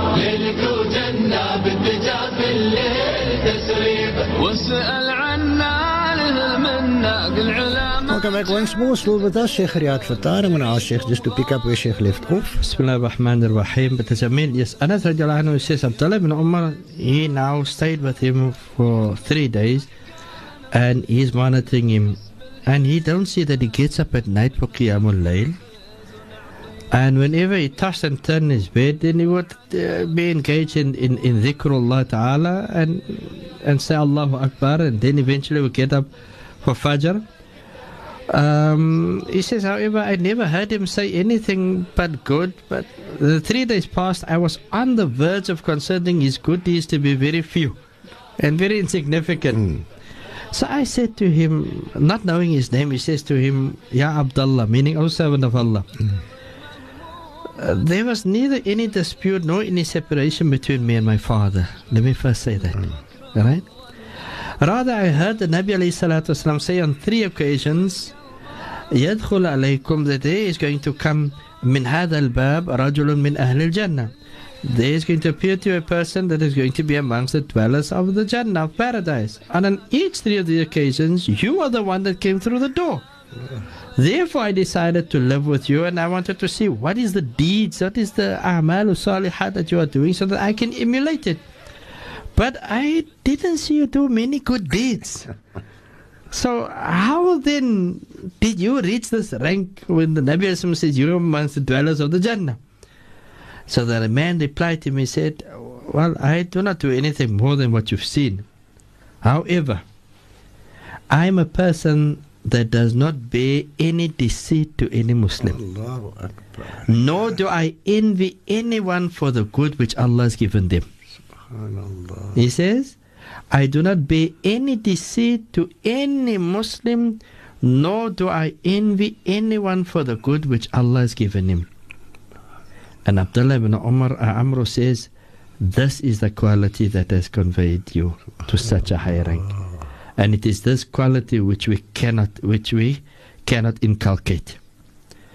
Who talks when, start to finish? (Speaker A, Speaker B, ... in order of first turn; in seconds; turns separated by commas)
Speaker A: 0.4-2.0, Speaker A: 4.2-8.1, Speaker B: 8.1-12.6, Speaker C: 12.6-19.9, Speaker C: 20.7-25.6, Speaker C: 26.9-36.1, Speaker C: 36.6-37.2, Speaker C: 38.3-47.8, Speaker C: 48.4-49.8, Speaker C: 50.5-55.9, Speaker C: 57.6-63.7, Speaker C: 64.6-68.1, Speaker C: 68.9-74.1, Speaker C: 74.6-83.0, Speaker C: 84.0-91.4, Speaker C: 92.3-95.3, Speaker C: 96.3-102.6, Speaker C: 103.7-108.5, Speaker C: 109.2-109.8, Speaker C: 111.1-115.6, Speaker B: 115.4-117.1, Speaker C: 116.9-120.8, Speaker B: 121.5-122.4, Speaker C: 122.3-123.0, Speaker C: 123.5-131.7, Speaker C: 133.1-135.1, Speaker C: 135.6-139.5, Speaker C: 140.2-144.6